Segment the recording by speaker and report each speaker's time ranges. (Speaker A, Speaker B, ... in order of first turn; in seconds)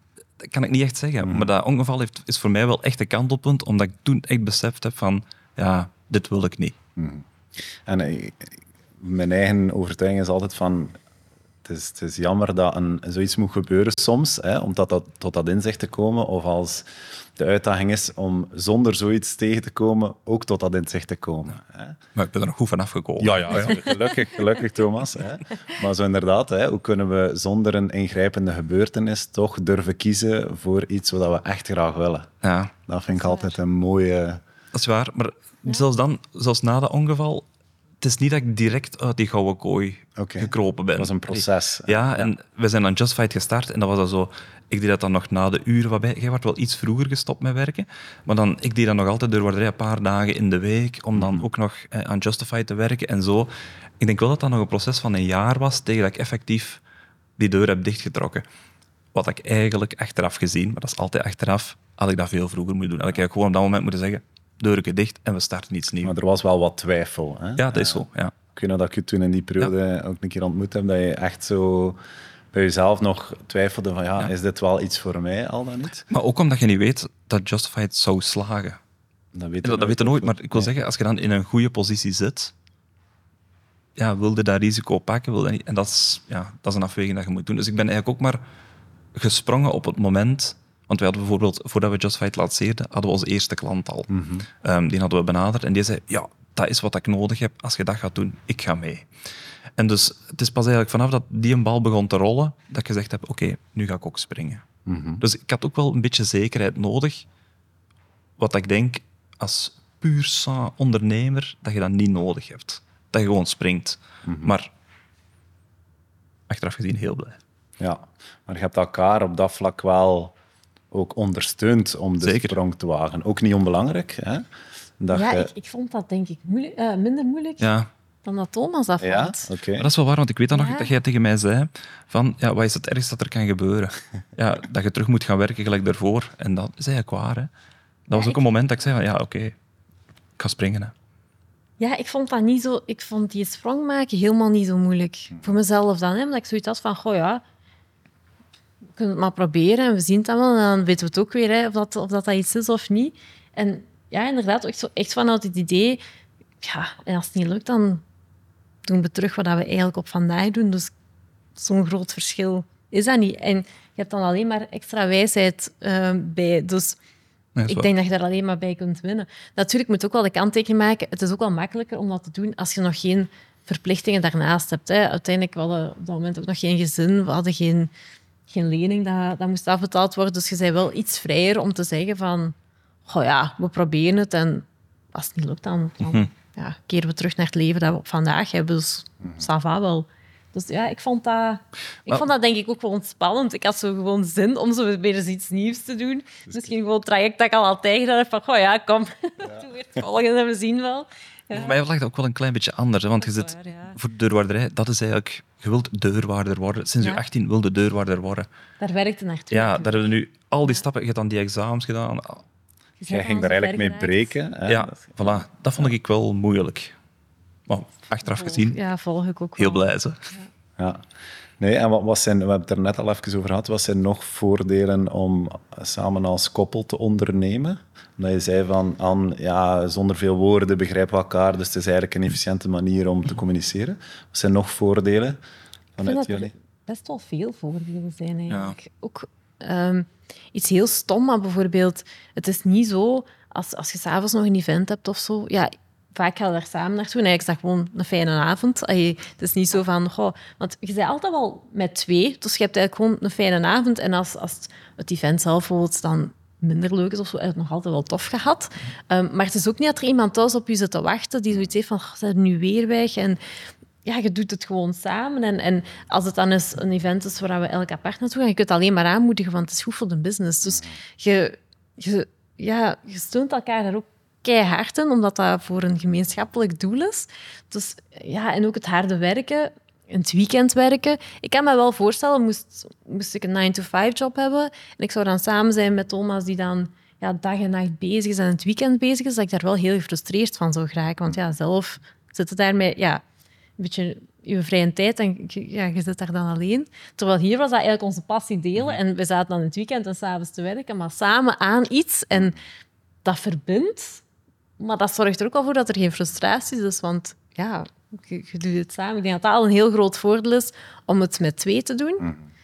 Speaker A: 0.4-6.8, 22.1-23.7, 32.4-32.7, 34.7-37.4, 38.0-56.8, 57.4-58.4, 59.1-66.1, 67.6-68.3, 76.1-78.8, 79.6-82.5, 84.0-88.4, 89.1-94.1, 94.6-99.0, 99.8-104.6, 105.2-107.2, 108.4-114.7, 116.5-117.4, 122.2-122.6, 127.6-127.9, 129.8-137.5, 138.1-139.5, 140.4-140.9, 167.6-167.9, 186.0-186.3, 201.5-208.5, 209.5-212.4, 214.7-216.9, 217.7-218.8, 219.6-220.2, 238.5-238.8
Speaker B: 1.2-1.5, 7.0-7.2, 7.8-10.9, 11.6-22.0, 23.2-32.3, 32.8-34.4, 40.2-42.3, 51.1-51.5, 66.0-72.0, 72.5-76.0, 79.3-80.7, 94.1-94.5, 104.8-105.2, 114.2-114.5, 117.8-120.3, 120.9-124.5, 125.0-125.5, 129.0-129.9, 213.1-215.9, 220.8-221.0, 221.6-235.4, 235.9-236.5
Speaker C: 33.1-33.6, 125.1-127.7, 128.2-129.5, 130.5-130.9, 141.8-147.4, 149.0-156.0, 156.6-158.0, 158.9-160.9, 161.6-167.0, 167.7-177.9, 178.5-182.5, 183.1-201.8, 203.2-203.9, 208.8-209.9, 213.0-214.3, 218.3-219.8, 236.0-263.4, 264.0-293.2, 293.8-302.5, 303.2-304.2, 304.8-312.3